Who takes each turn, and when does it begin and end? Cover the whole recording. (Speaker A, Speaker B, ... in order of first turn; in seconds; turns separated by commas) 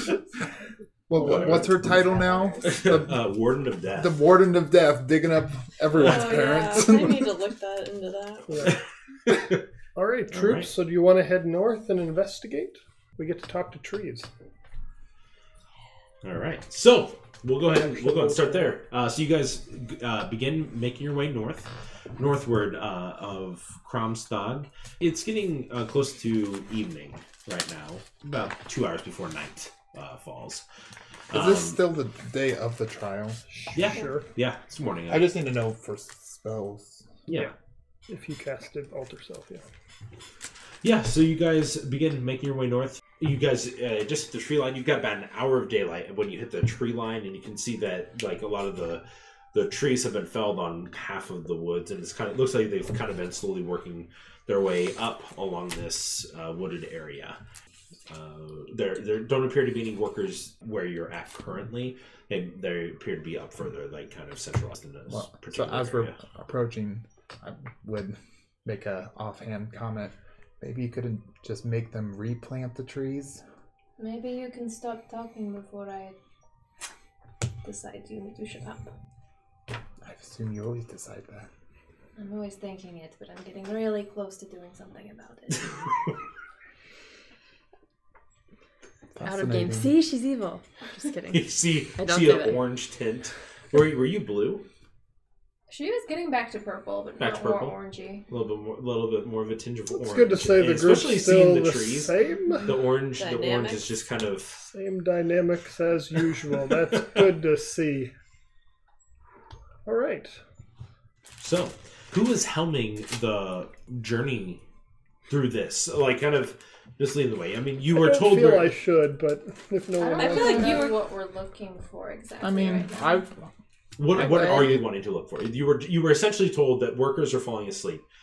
Speaker A: 1.1-3.3, Speaker B: 1.2-1.7, Speaker C: 1.2-1.7, Speaker D: 1.9-2.8, Speaker B: 2.6-4.2, Speaker A: 4.0-7.4, Speaker D: 5.9-8.8, Speaker C: 8.5-8.8, Speaker B: 9.3-9.6, Speaker C: 9.9-14.3, Speaker B: 10.3-10.7, Speaker B: 16.2-30.6, Speaker C: 17.7-18.8, Speaker B: 31.3-31.8, Speaker A: 31.3-33.4, Speaker C: 33.5-34.3, Speaker B: 33.7-35.4, Speaker A: 35.1-37.1, Speaker B: 37.3-37.5, Speaker C: 38.1-39.6, Speaker B: 40.8-57.4, Speaker B: 58.1-66.2, Speaker A: 65.1-73.4, Speaker E: 74.0-76.2, Speaker E: 77.6-78.9, Speaker A: 80.0-81.5, Speaker E: 82.2-85.9, Speaker A: 89.2-90.0, Speaker F: 89.2-92.6, Speaker B: 91.3-94.7, Speaker E: 95.7-98.3, Speaker B: 97.2-97.8, Speaker B: 98.3-104.7, Speaker C: 99.9-102.7, Speaker D: 103.2-103.9, Speaker C: 104.6-108.1, Speaker C: 109.9-110.4, Speaker B: 111.4-114.6, Speaker B: 115.3-118.8, Speaker C: 117.9-120.8, Speaker E: 120.0-123.2, Speaker D: 120.2-121.0, Speaker A: 122.4-123.5, Speaker B: 124.0-128.1, Speaker A: 124.1-124.9